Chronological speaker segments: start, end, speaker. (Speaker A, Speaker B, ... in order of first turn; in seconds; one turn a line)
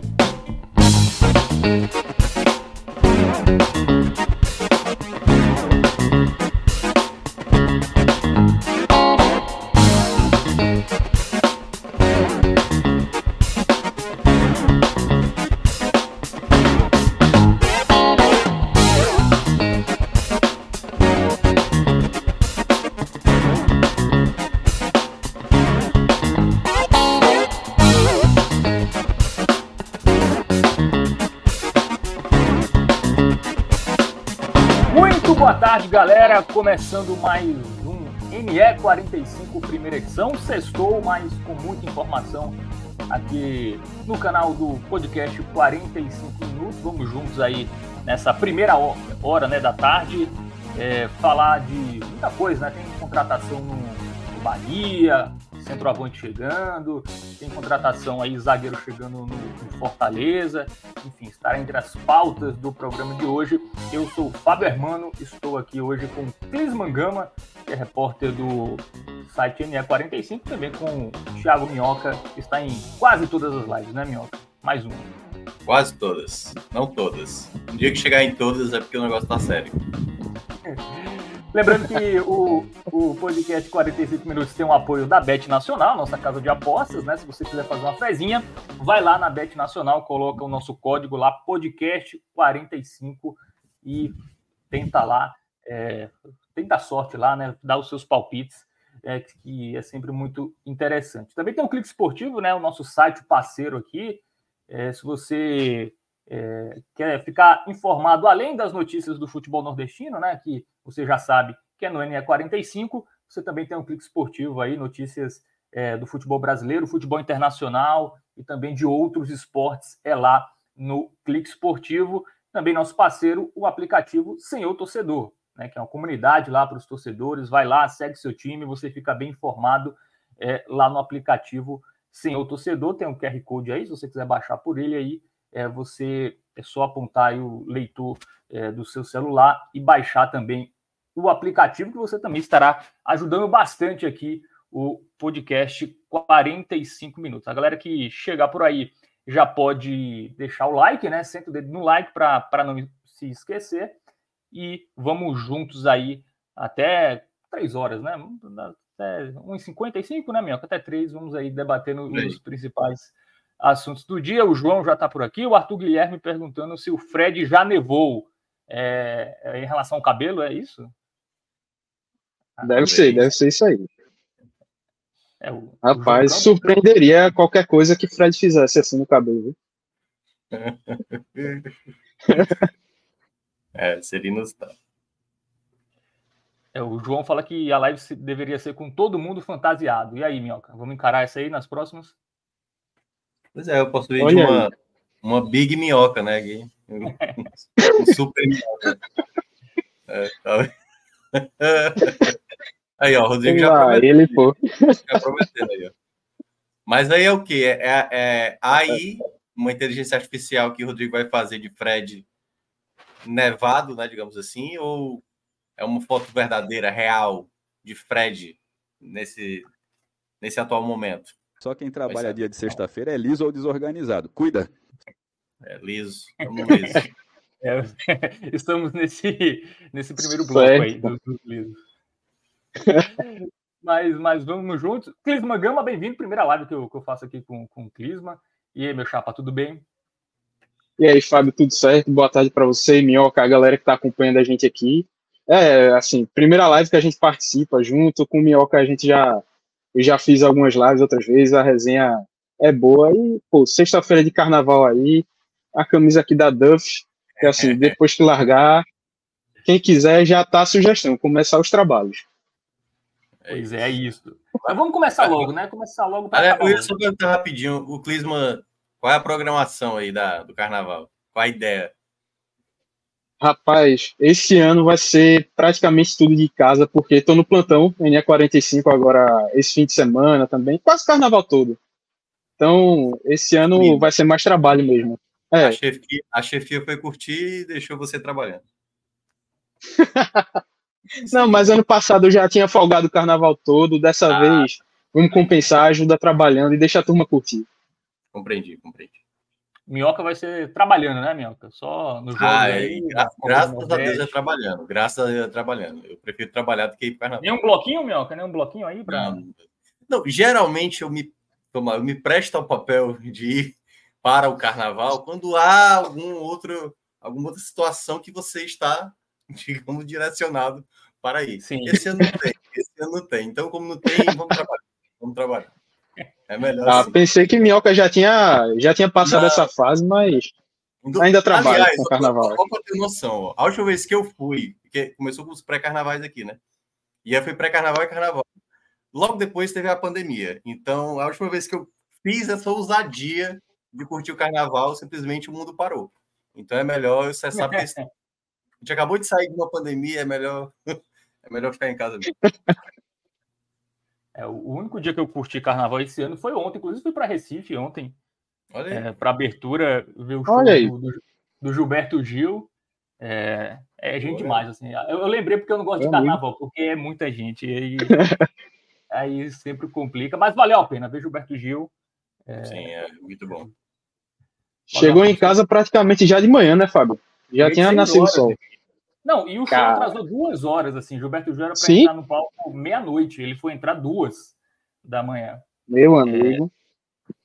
Speaker A: 34.9-42.6
Speaker A: 43.1-75.1
Speaker B: 75.7-79.8
Speaker A: 80.7-94.1
Speaker A: 94.7-153.9
Speaker A: 154.5-170.9
Speaker B: 162.1-162.4
Speaker A: 172.6-172.9
Speaker C: 172.6-173.9
Speaker B: 172.8-173.3
Speaker A: 175.4-176.6
Speaker C: 175.8-179.6
Speaker B: 180.5-181.7
Speaker C: 182.3-182.6
Speaker B: 183.8-184.8
Speaker A: 186.7-192.2
Speaker B: 193.6-199.0
Speaker C: 194.2-194.7
Speaker C: 197.9-198.1
Speaker B: 200.1-200.7
Speaker B: 201.3-202.4
Speaker B: 203.0-204.4
Speaker C: 203.4-205.2
Speaker B: 205.0-205.9
Speaker B: 206.9-212.3
Speaker B: 213.2-215.2
Speaker B: 215.8-219.7
Speaker B: 220.4-221.4
Speaker D: 221.6-224.7
Speaker B: 222.1-222.4
Speaker B: 225.6-227.1
Speaker A: 226.7-227.0
Speaker A: 227.6-231.8
Speaker C: 230.4-231.1
Speaker C: 232.8-233.1
Speaker A: 233.2-239.8
Speaker C: 241.0-249.4
Speaker C: 249.9-258.9
Speaker B: 257.4-258.0
Speaker C: 259.6-262.3
Speaker B: 263.4-264.0
Speaker A: 263.5-266.9
Speaker B: 264.6-265.5
Speaker B: 266.3-271.9
Speaker C: 273.4-281.8
Speaker C: 282.6-285.8
Speaker B: 283.7-284.1
Speaker B: 285.6-288.6
Speaker C: 290.0-290.5
Speaker B: 291.2-291.8
Speaker C: 291.3-297.7
Speaker B: 294.3-294.7
Speaker B: 298.3-299.2
Speaker A: 299.9-304.3
Speaker B: 302.4-307.6
Speaker A: 307.4-309.4
Speaker B: 309.1-325.7
Speaker A: 321.6-322.0
Speaker B: 326.5-327.3
Speaker C: 326.9-330.5
Speaker B: 329.2-329.7
Speaker B: 331.0-336.6
Speaker C: 331.2-332.6
Speaker B: 337.2-338.4
Speaker B: 339.1-348.0
Speaker A: 347.5-348.0
Speaker B: 348.8-352.3
Speaker A: 354.4-358.1
Speaker B: 358.7-359.1
Speaker A: 358.9-362.7
Speaker C: 360.5-360.9
Speaker A: 363.2-368.2
Speaker B: 364.2-364.6
Speaker C: 366.0-366.4
Speaker C: 368.1-368.4
Speaker A: 369.1-371.9
Speaker A: 372.5-372.9
Speaker B: 372.6-373.7
Speaker A: 374.9-375.6
Speaker C: 374.9-378.6
Speaker B: 377.6-378.6
Speaker A: 379.2-385.6
Speaker C: 379.7-380.1
Speaker C: 381.8-382.1
Speaker C: 385.9-386.7
Speaker A: 386.3-386.6